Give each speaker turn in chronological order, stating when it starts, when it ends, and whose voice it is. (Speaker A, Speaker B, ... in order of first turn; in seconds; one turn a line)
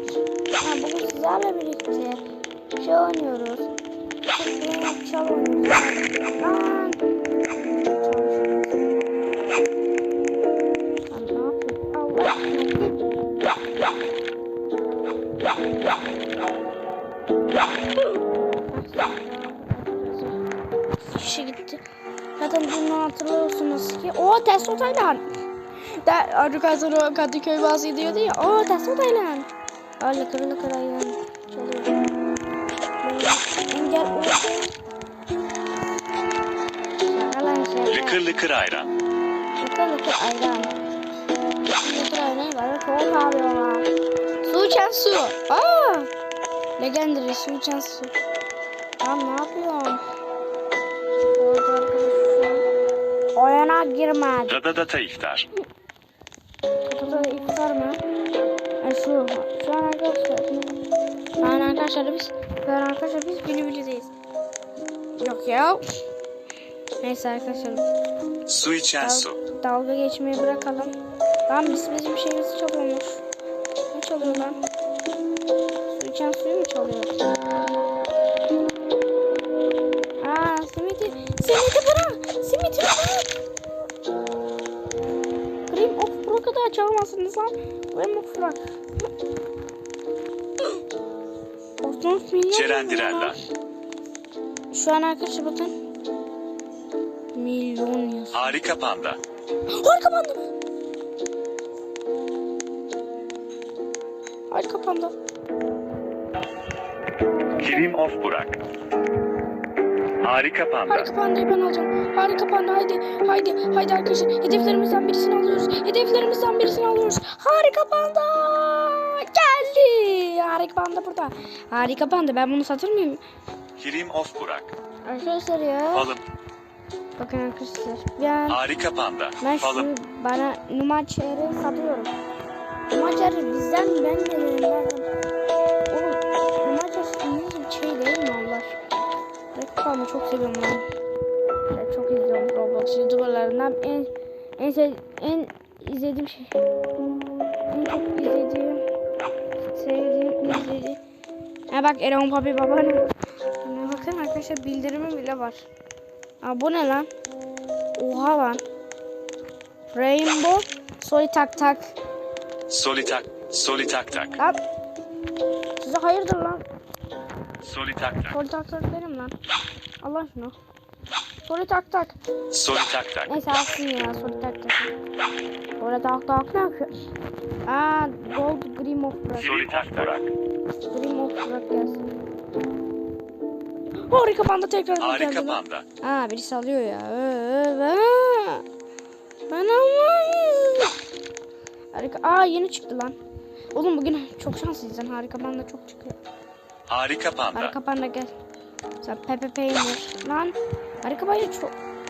Speaker A: 0.6-2.2
Speaker A: 2.8-3.7
Speaker A: 4.3-7.0
Speaker A: 7.7-8.8
Speaker A: 11.1-13.0
Speaker A: 18.1-20.4
Speaker A: 21.0-21.8
Speaker A: 22.4-25.2
Speaker A: 25.8-29.5
Speaker A: 30.0-32.0
Speaker A: 33.0-34.7
Speaker A: 37.0-38.2
Speaker B: 37.9-38.9
Speaker A: 39.6-40.8
Speaker A: 41.8-43.9
Speaker A: 44.4-46.1
Speaker A: 46.8-48.1
Speaker A: 49.0-50.0
Speaker A: 51.3-52.6
Speaker A: 53.3-54.6
Speaker B: 54.5-55.5
Speaker A: 56.8-58.0
Speaker A: 58.8-60.6
Speaker A: 61.4-64.1
Speaker A: 65.2-65.8
Speaker A: 67.0-67.8
Speaker B: 68.5-69.4
Speaker A: 69.0-70.9
Speaker A: 71.5-73.2
Speaker A: 73.9-74.6
Speaker A: 75.9-77.2
Speaker A: 80.2-83.3
Speaker A: 85.7-88.8
Speaker A: 91.8-93.4
Speaker B: 92.5-93.4
Speaker A: 94.7-95.7
Speaker A: 97.3-98.5
Speaker B: 98.3-99.2
Speaker A: 99.7-100.4
Speaker A: 104.5-105.1
Speaker A: 107.5-107.9
Speaker B: 107.6-108.6
Speaker B: 110.2-111.1
Speaker A: 110.9-123.2
Speaker B: 123.8-124.7
Speaker A: 125.0-126.2
Speaker B: 125.9-126.2
Speaker A: 127.2-128.6
Speaker B: 128.5-129.9
Speaker A: 129.4-132.1
Speaker A: 132.9-135.1
Speaker A: 135.9-138.8
Speaker A: 139.5-140.8
Speaker A: 141.7-146.6
Speaker A: 147.7-148.8
Speaker A: 149.7-151.0
Speaker A: 151.7-155.7
Speaker A: 156.4-157.1
Speaker A: 157.9-158.6
Speaker A: 159.9-161.9
Speaker B: 162.7-164.3
Speaker A: 165.8-166.6
Speaker B: 167.6-168.4
Speaker A: 168.3-169.3
Speaker A: 170.0-170.5
Speaker A: 171.5-172.2
Speaker B: 172.5-173.3
Speaker A: 173.2-174.9
Speaker A: 175.8-176.9
Speaker A: 177.6-179.7
Speaker B: 179.4-180.3
Speaker A: 180.9-182.0
Speaker A: 184.1-188.6
Speaker B: 185.0-185.8
Speaker A: 189.5-190.9
Speaker A: 191.9-193.2
Speaker A: 193.7-196.2
Speaker B: 196.9-197.8
Speaker A: 197.5-198.3
Speaker A: 199.0-201.7